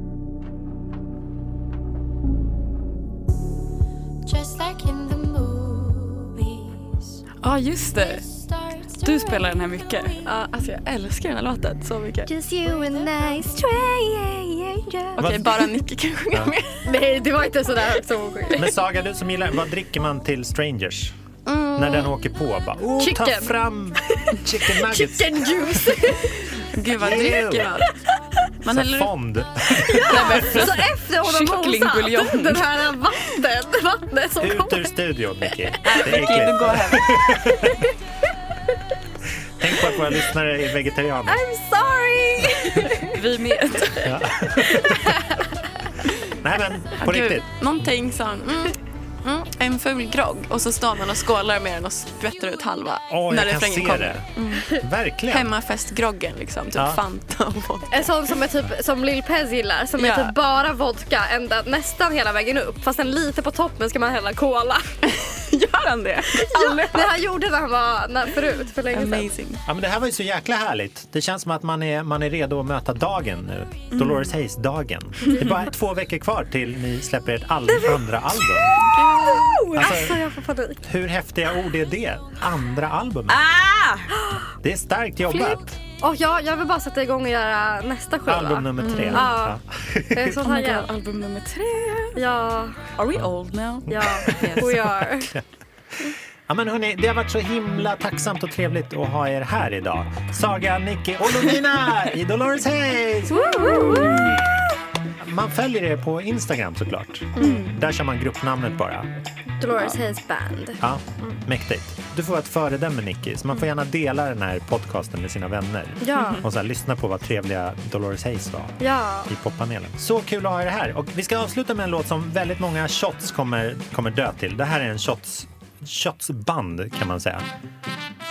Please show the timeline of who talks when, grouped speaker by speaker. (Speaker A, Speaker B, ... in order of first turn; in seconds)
Speaker A: 4.2-7.1, 8.0-10.1, 12.3-14.1
Speaker B: 7.4-8.2, 9.0-10.1, 30.1-32.9, 43.1-44.1, 83.5-83.9, 88.9-89.3, 90.4-92.2, 93.1-93.8, 103.8-104.2, 107.4-107.7
Speaker C: 10.3-12.3, 15.2-16.9, 21.4-22.1, 26.7-27.9, 28.6-29.1, 30.1-30.7, 35.9-37.4, 47.0-54.7, 55.3-58.2, 60.0-60.3, 65.1-67.2, 68.9-69.6, 78.8-79.7, 93.2-93.4, 94.3-94.9
Speaker D: 12.5-15.2, 16.9-18.7, 23.0-23.6, 24.1-26.3, 29.8-34.9, 41.3-43.2, 44.9-45.4, 57.9-64.9, 66.3-69.3, 77.7-78.0, 79.0-80.8, 85.3-89.6, 90.1-90.9, 92.2-92.9, 93.9-95.3, 103.3-104.3, 107.4-107.7, 109.6-111.4, 116.0-116.4, 118.8-119.3
Speaker E: 15.2-15.6, 18.6-21.1, 21.7-25.4, 27.0-27.8, 28.7-30.2, 34.4-37.8, 39.6-41.4, 44.0-45.2, 46.4-47.8, 53.1-55.5, 56.7-57.0, 69.7-78.7, 79.7-80.2, 80.8-83.4, 84.6-85.8, 88.3-90.4, 93.9-95.4, 96.5-103.4, 105.2-109.1, 110.8-127.4